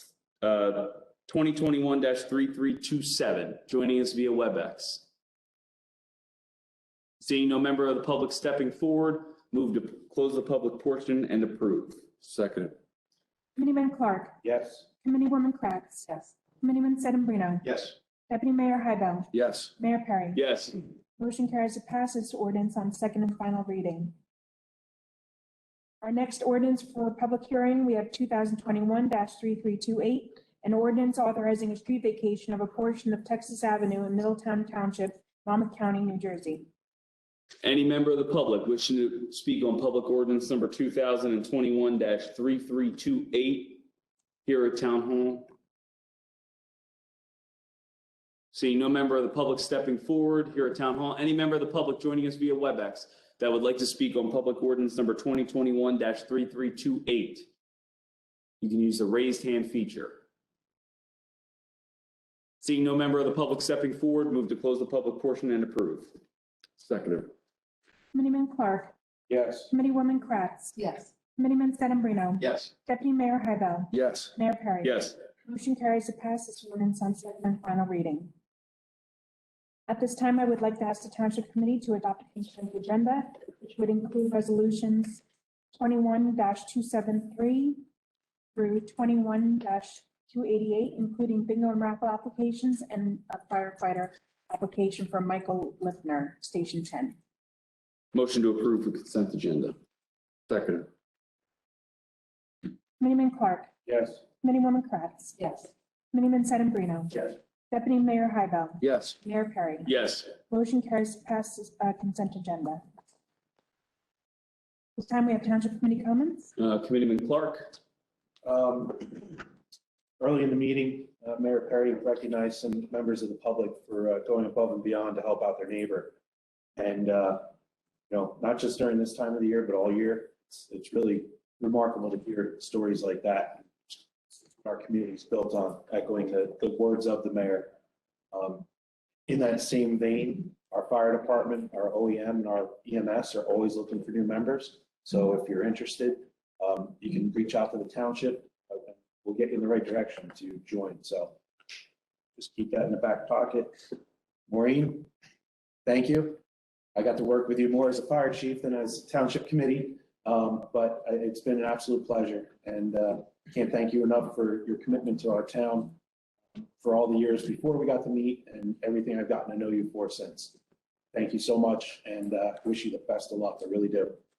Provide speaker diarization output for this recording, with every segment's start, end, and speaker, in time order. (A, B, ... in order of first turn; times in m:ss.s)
0:00.4-0:05.1 A
0:07.2-0:12.0 A
0:12.2-0:12.8 B
0:13.6-0:14.4 C
0:14.4-0:14.9 D
0:15.0-0:17.8 C
0:18.3-0:20.4 C
0:19.3-0:19.7 B
0:20.4-0:20.8 A
0:21.2-0:24.1 C
0:26.0-0:36.7 C
0:37.6-0:43.8 A
0:44.4-0:45.5 A
0:48.5-0:57.5 A
0:58.6-1:00.2 A
1:02.6-1:06.1 A
1:06.8-1:07.3 B
1:08.1-1:08.9 C
1:09.3-1:09.7 D
1:09.7-1:18.3 C
1:12.4-1:12.7 A
1:13.9-1:14.3 B
1:14.8-1:15.2 A
1:19.9-1:25.2 C
1:25.7-1:27.8 C
1:28.6-1:37.2 C
1:38.1-1:39.8 A
1:40.5-1:40.9 B
1:43.0-1:43.7 C
1:43.9-1:44.2 D
1:44.4-1:45.4 C
1:46.1-1:52.8 C
1:48.8-1:49.1 B
1:49.8-1:50.3 A
1:55.0-1:56.5 C
1:56.6-1:57.7 A
1:58.4-1:59.4 D
2:00.2-2:06.2 D
2:06.8-2:07.5 D
2:08.1-2:17.8 D
2:18.3-2:18.7 D
2:19.3-2:31.4 D
2:32.4-2:35.1 D
2:35.8-2:36.4 D
2:36.9-2:46.0 D
2:46.6-2:50.6 D
2:51.1-2:54.2 D